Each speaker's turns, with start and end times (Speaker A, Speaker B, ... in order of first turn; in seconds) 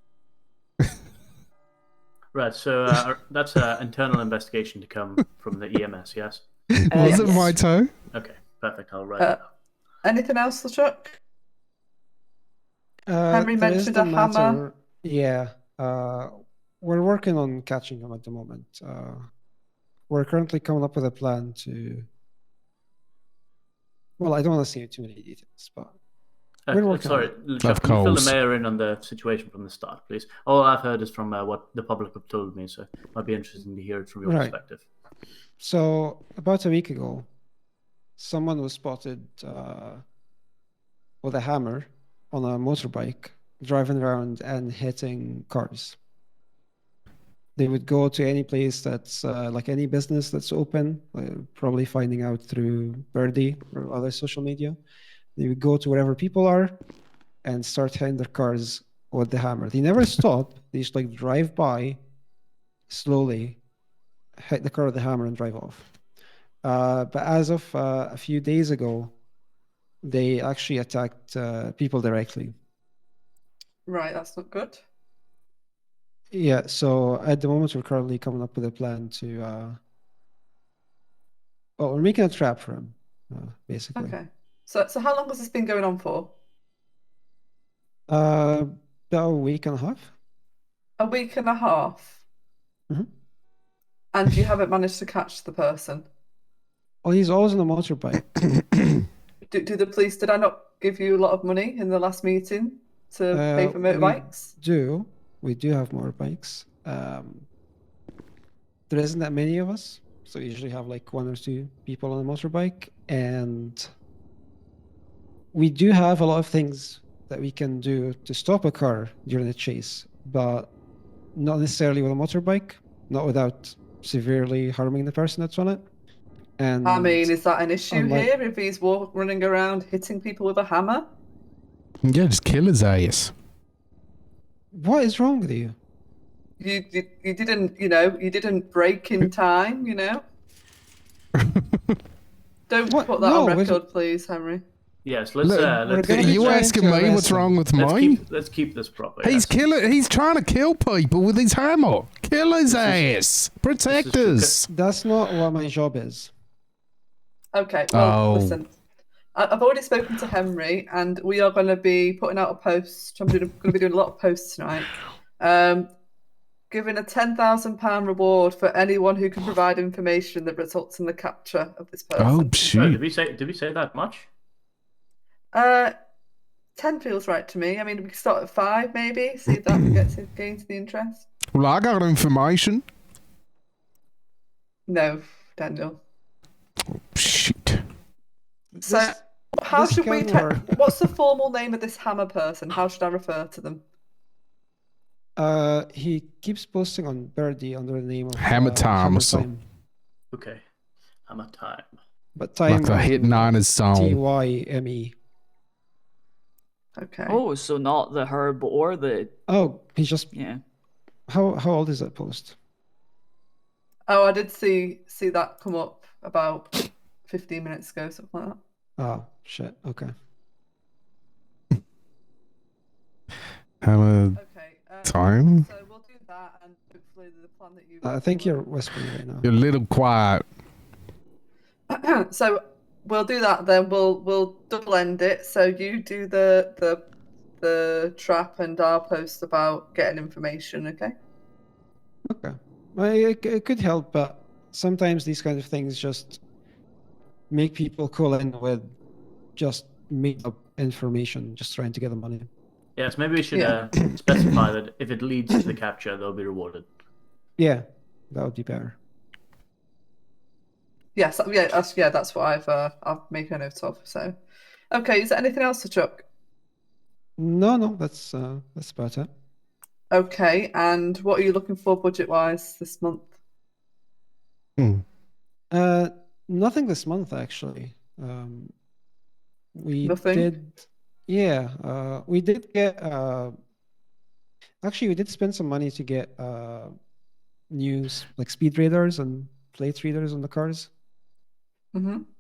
Speaker A: 2.3-6.5, 8.1-9.4, 26.7-34.8, 145.1-146.7, 147.8-149.6, 152.7-153.1, 153.9-154.6, 172.7-174.3, 200.3-200.6, 201.3-201.9, 253.0-256.9
Speaker B: 6.8-7.9, 27.6-28.4, 132.0-133.3, 141.4-141.8, 145.4-148.2, 149.2-154.7, 157.9-158.6, 172.2-173.0, 179.7-180.0, 181.5-182.8, 187.1-187.8, 198.4-199.5, 202.7-204.2, 223.8-224.4, 225.1-225.7, 229.4-230.5, 274.8-275.0
Speaker C: 6.9-7.6, 207.3-209.3, 210.3-210.6
Speaker D: 7.0-7.4, 10.0-11.2, 13.3-14.6, 73.9-74.8, 84.0-86.3, 91.0-92.2, 94.1-96.1, 99.5-104.5, 126.8-131.1, 136.6-140.2, 142.7-144.6, 157.5-158.7, 159.3-165.9, 166.7-172.7, 175.5-175.9, 176.8-181.2, 184.9-186.0, 188.8-193.8, 207.0-207.4, 214.1-216.7, 217.3-218.6, 224.4-228.6, 231.9-237.0, 237.6-241.1, 261.1-264.4, 264.9-266.2, 270.1-273.3, 280.0-280.5, 291.9-292.2
Speaker E: 13.1-19.3, 20.1-22.1, 24.2-25.9, 26.7-27.3, 34.2-34.5, 35.6-37.3, 38.2-40.0, 41.2-46.0, 47.6-54.8, 55.4-56.7, 57.4-62.0, 62.9-63.6, 64.4-65.9, 66.6-69.1, 70.0-72.5, 76.3-79.8, 81.8-84.2, 88.1-90.1, 97.0-98.8, 103.3-107.5, 108.9-113.9, 115.5-120.7, 121.3-125.8, 126.6-127.3, 127.9-128.3, 134.7-135.8, 142.9-143.8, 145.8-147.6, 154.7-156.3, 188.7-190.8, 195.4-199.6, 202.3-205.1, 209.5-210.3, 211.3-212.6, 219.0-220.1, 228.0-229.5, 242.3-246.4, 247.5-248.9, 249.6-252.5, 257.6-259.0, 267.4-269.3, 275.7-278.7, 279.8-283.6, 284.8-286.9, 287.7-290.9